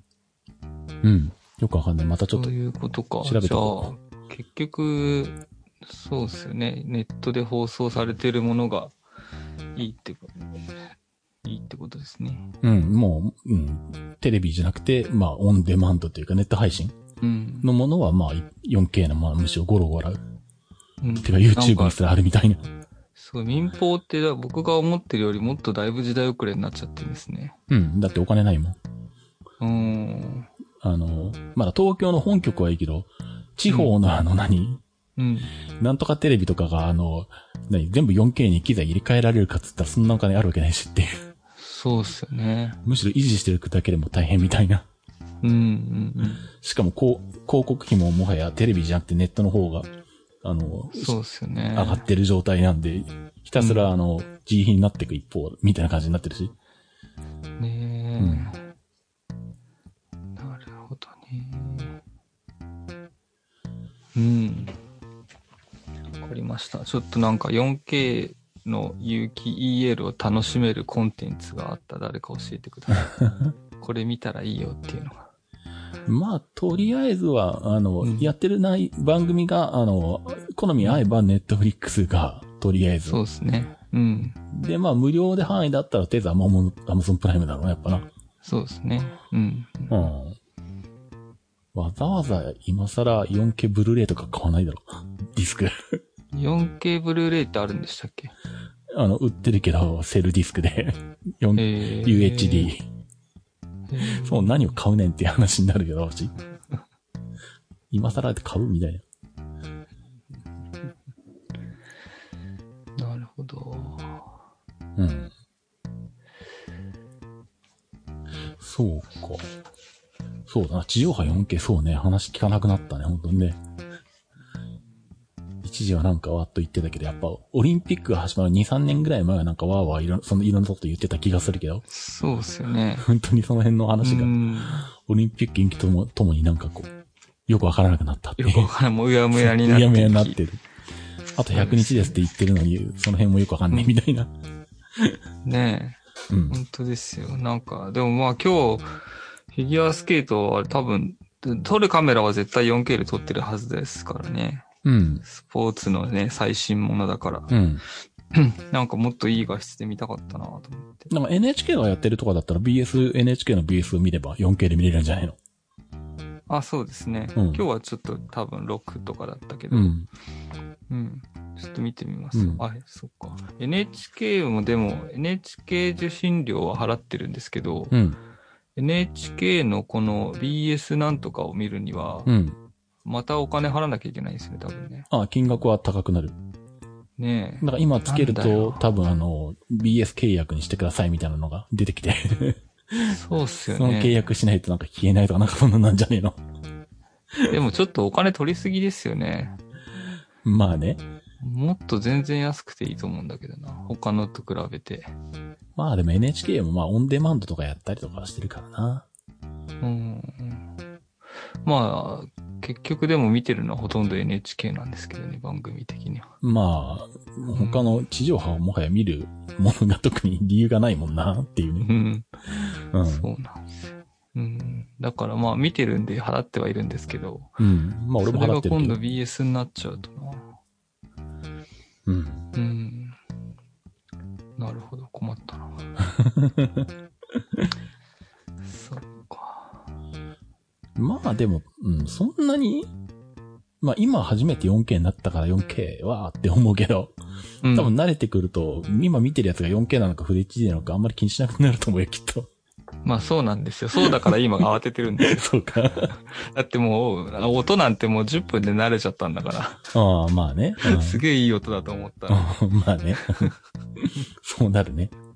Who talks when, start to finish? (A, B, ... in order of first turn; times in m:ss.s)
0:01.0-0:02.5 A
0:02.3-0:08.9 B
0:03.2-0:03.9 A
0:09.8-0:10.7 B
0:11.4-0:12.5 B
0:12.6-0:17.0 A
0:17.2-0:17.7 B
0:17.6-0:20.2 A
0:21.0-0:22.0 B
0:21.2-0:22.6 A
0:23.2-0:27.6 B
0:27.7-0:28.8 A
0:29.6-0:30.5 B
0:30.8-0:34.8 A
0:35.2-0:35.5 B
0:35.8-0:41.2 A
0:41.6-0:42.8 B
0:42.8-0:44.9 A
0:45.4-0:46.5 B
0:46.4-0:49.9 A
0:50.4-0:51.2 A
0:50.9-0:52.0 B
0:51.8-0:56.5 A
0:53.6-0:53.9 B
0:57.6-0:58.6 B
0:58.2-0:58.5 A
1:00.4-1:02.0 B
1:04.2-1:04.8 B
1:06.2-1:13.3 B
1:13.8-1:15.2 B
1:16.1-1:23.2 A
1:18.0-1:18.3 B
1:23.1-1:24.4 B
1:24.5-1:28.1 A
1:28.4-1:30.1 B
1:29.9-1:30.4 A
1:31.7-1:36.0 A
1:36.3-1:38.3 B
1:38.9-1:42.9 A
1:41.6-1:42.7 B
1:43.9-1:44.6 B
1:44.0-1:46.3 A
1:47.9-1:49.0 A
1:53.0-1:54.2 B
1:55.0-1:55.3 A
1:58.6-1:59.5 A
2:00.5-2:03.6 A
2:05.6-2:11.8 A
2:11.9-2:13.1 B
2:13.0-2:16.9 A
2:14.0-2:14.9 B
2:17.5-2:18.7 A
2:18.4-2:20.4 B
2:19.4-2:20.6 A
2:21.4-2:24.3 A
2:21.5-2:22.2 B
2:25.4-2:34.6 B
2:26.3-2:26.6 A
2:34.8-2:35.2 A
2:35.2-2:37.5 B
2:37.5-2:37.8 A
2:38.3-2:41.1 B
2:41.1-2:45.4 A
2:46.5-2:49.9 B
2:47.4-2:47.6 A
2:49.7-2:50.1 A
2:50.9-2:58.0 B
2:52.3-2:52.6 A
2:57.9-2:58.2 A
2:58.8-3:02.3 B
3:02.3-3:02.6 A
3:03.0-3:05.1 B
3:05.1-3:06.4 A
3:07.2-3:08.9 B
3:07.6-3:13.1 A
3:13.0-3:14.2 B
3:13.8-3:16.4 A
3:17.4-3:19.6 B
3:20.4-3:21.0 A
3:21.4-3:25.1 B
3:25.8-3:29.1 A
3:29.8-3:30.6 B
3:31.6-3:36.3 B
3:36.4-3:41.9 A
3:37.5-3:38.0 B
3:41.8-3:42.3 B
3:42.9-3:43.3 A
3:43.0-3:47.5 B
3:47.6-3:49.0 A
3:48.2-3:50.5 B
3:52.1-3:52.5 A
3:52.6-3:53.2 B
3:54.6-3:55.9 B
3:56.1-3:56.9 A
3:58.6-3:59.8 B
4:01.0-4:02.9 A
4:03.8-4:07.1 A
4:07.6-4:07.9 B
4:07.7-4:12.5 A
4:13.0-4:15.5 B
4:14.0-4:14.3 A
4:15.2-4:16.1 A
4:16.3-4:19.8 B
4:19.9-4:21.2 A
4:20.8-4:22.6 B
4:22.3-4:25.1 A
4:23.2-4:23.5 B